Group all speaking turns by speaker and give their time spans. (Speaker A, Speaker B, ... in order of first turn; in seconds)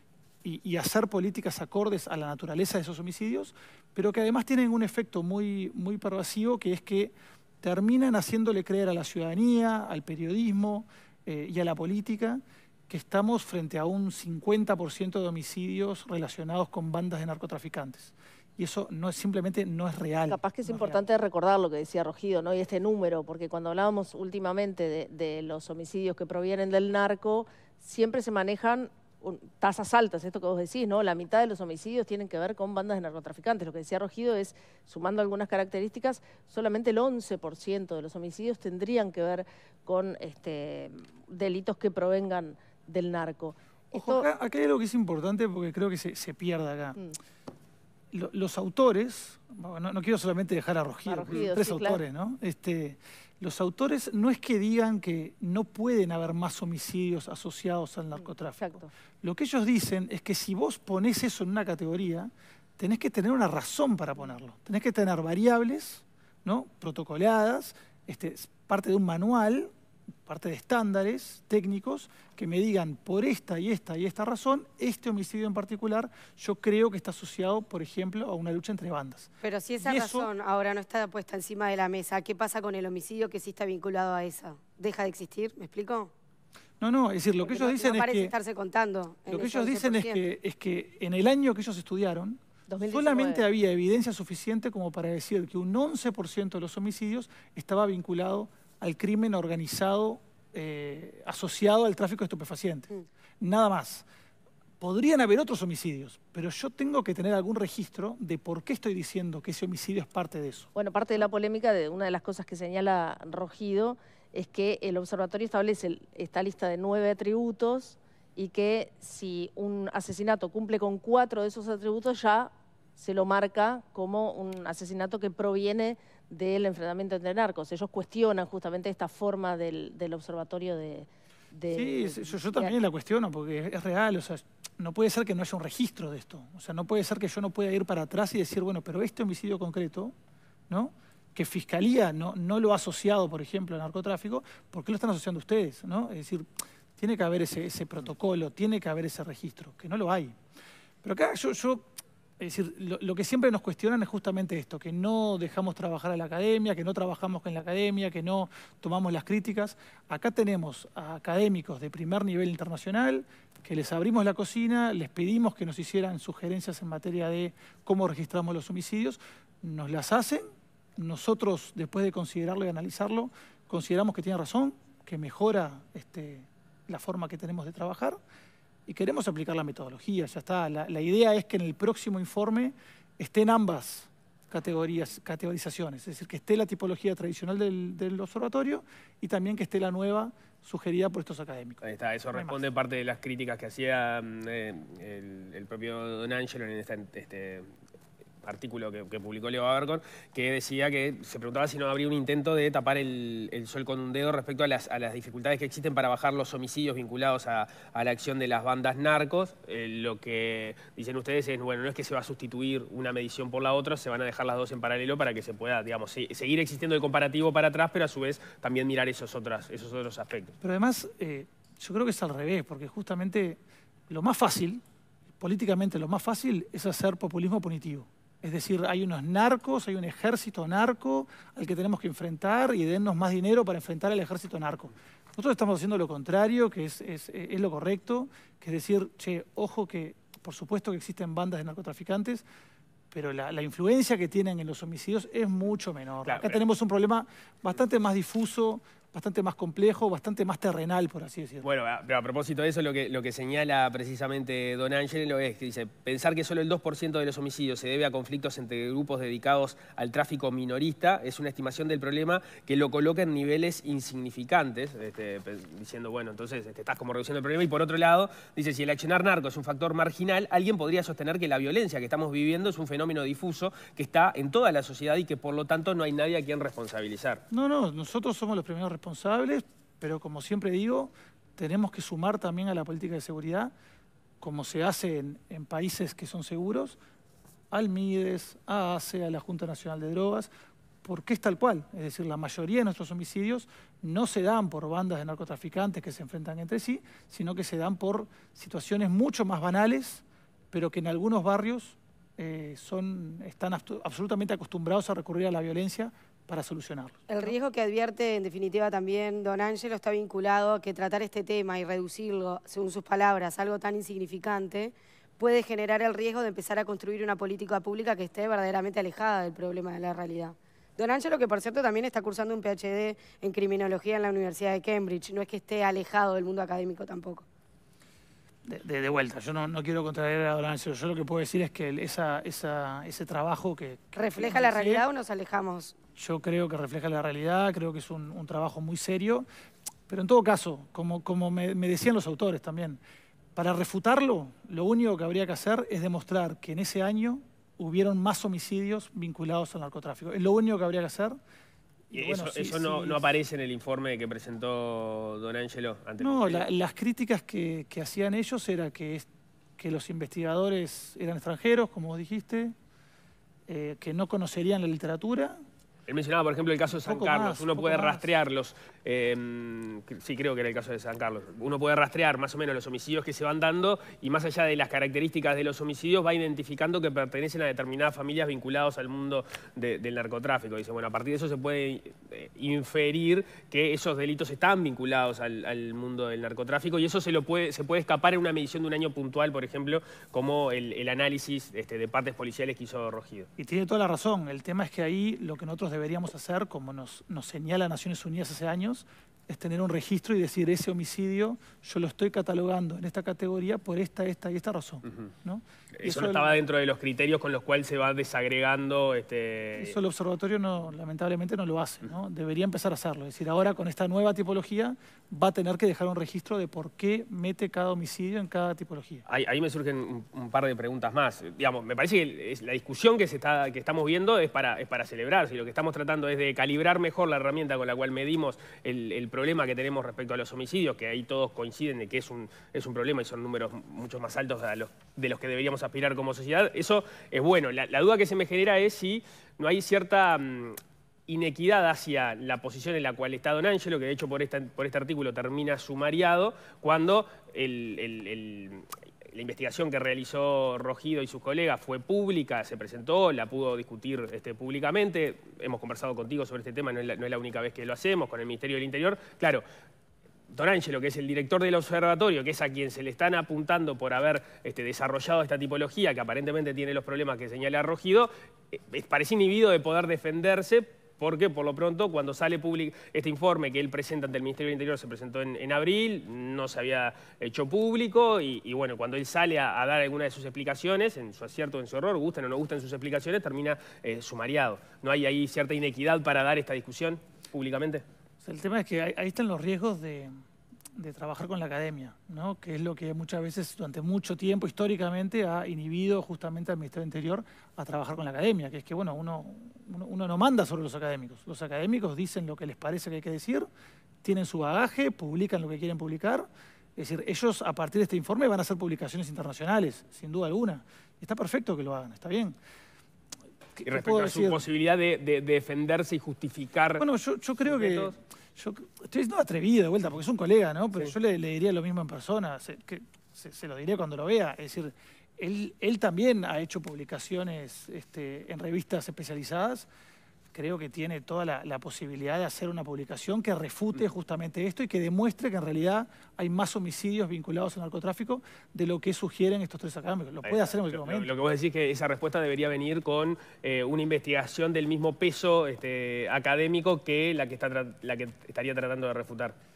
Speaker A: 0.4-21.0, 43.9-47.0, 48.1-69.7, 70.3-80.3, 86.8-88.3, 89.3-104.1, 104.8-110.7, 131.7-140.1, 140.7-150.4, 151.0-151.8, 152.4-170.4, 171.0-178.2, 178.9-192.6, 220.6-224.8, 225.4-242.4, 243.1-251.7, 277.5-283.7, 284.4-287.0, 287.7-290.5, 291.0-307.5, 328.6-335.1, 336.2-339.5, 340.1-343.0, 343.6-351.4, 352.1-353.2, 356.2-359.3, 359.8-362.8, 363.7-365.6, 367.0-368.3, 393.6-406.6, 409.8-419.3, 488.4-490.4, 491.0-503.7, 504.2-512.6, 513.8-514.6, 517.0-529.9, 530.5-541.3
Speaker B: 20.3-44.3, 51.1-52.0, 58.6-58.9, 92.7-93.5, 110.8-132.8
Speaker C: 79.4-86.1, 87.4-90.2, 307.3-327.4, 334.1-335.9
Speaker D: 191.8-197.7, 198.4-220.6, 246.2-246.6, 251.6-277.4, 352.1-356.7, 366.1-393.5, 406.0-410.0, 419.3-459.6, 460.5-488.0, 513.9-517.1, 517.6-518.1, 540.4-549.6